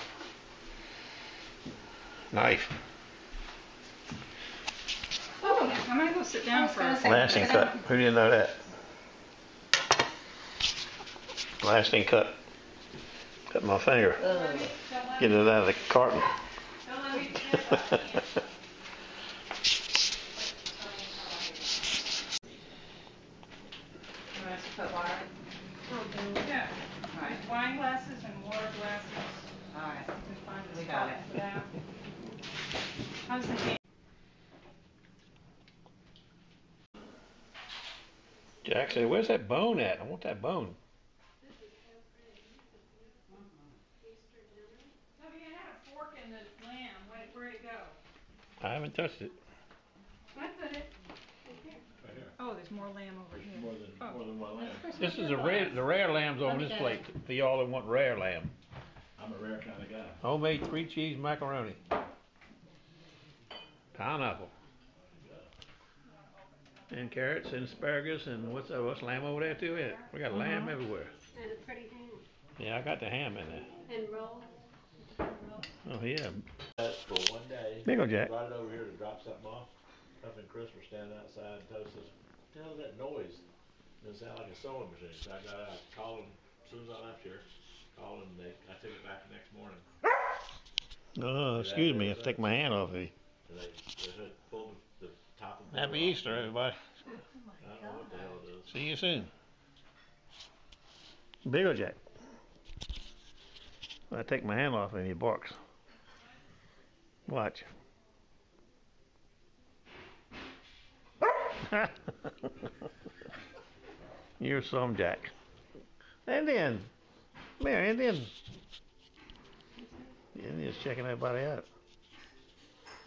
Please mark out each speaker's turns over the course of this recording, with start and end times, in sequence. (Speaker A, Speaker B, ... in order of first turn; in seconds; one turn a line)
Speaker A: 2.3-2.7
Speaker B: 5.4-5.8
Speaker C: 5.4-7.7
Speaker B: 6.5-7.7
Speaker A: 7.0-8.6
Speaker A: 11.6-12.4
Speaker A: 13.5-14.2
Speaker C: 14.2-15.9
Speaker B: 14.2-14.7
Speaker A: 15.2-16.3
Speaker C: 16.8-18.4
Speaker C: 20.4-21.5
Speaker B: 24.3-25.3
Speaker C: 26.3-29.5
Speaker B: 27.1-27.4
Speaker B: 29.7-30.1
Speaker C: 30.1-31.7
Speaker B: 30.7-31.2
Speaker C: 33.2-33.8
Speaker A: 38.6-40.8
Speaker D: 41.4-43.4
Speaker B: 43.3-43.7
Speaker D: 44.0-44.9
Speaker C: 45.1-48.0
Speaker A: 48.6-49.4
Speaker C: 50.3-50.9
Speaker D: 51.5-51.8
Speaker E: 52.0-52.3
Speaker C: 52.4-54.2
Speaker E: 53.3-55.0
Speaker B: 54.5-55.8
Speaker A: 55.0-58.5
Speaker B: 56.4-57.0
Speaker E: 59.2-60.2
Speaker A: 60.2-61.8
Speaker A: 63.9-64.5
Speaker E: 65.1-65.5
Speaker A: 66.9-71.1
Speaker D: 71.3-72.2
Speaker A: 72.6-73.7
Speaker D: 73.8-74.5
Speaker A: 75.8-76.4
Speaker E: 76.8-79.7
Speaker A: 77.8-78.3
Speaker E: 80.2-83.4
Speaker E: 84.0-89.8
Speaker A: 91.2-93.1
Speaker E: 91.5-92.5
Speaker E: 93.5-96.5
Speaker A: 95.7-96.8
Speaker B: 97.4-98.3
Speaker E: 97.6-98.7
Speaker A: 98.6-99.3
Speaker A: 101.4-102.0
Speaker A: 104.1-105.6
Speaker A: 107.3-107.7
Speaker A: 111.7-112.3
Speaker A: 114.4-115.3
Speaker A: 116.2-116.9
Speaker A: 117.6-118.3
Speaker A: 120.3-121.7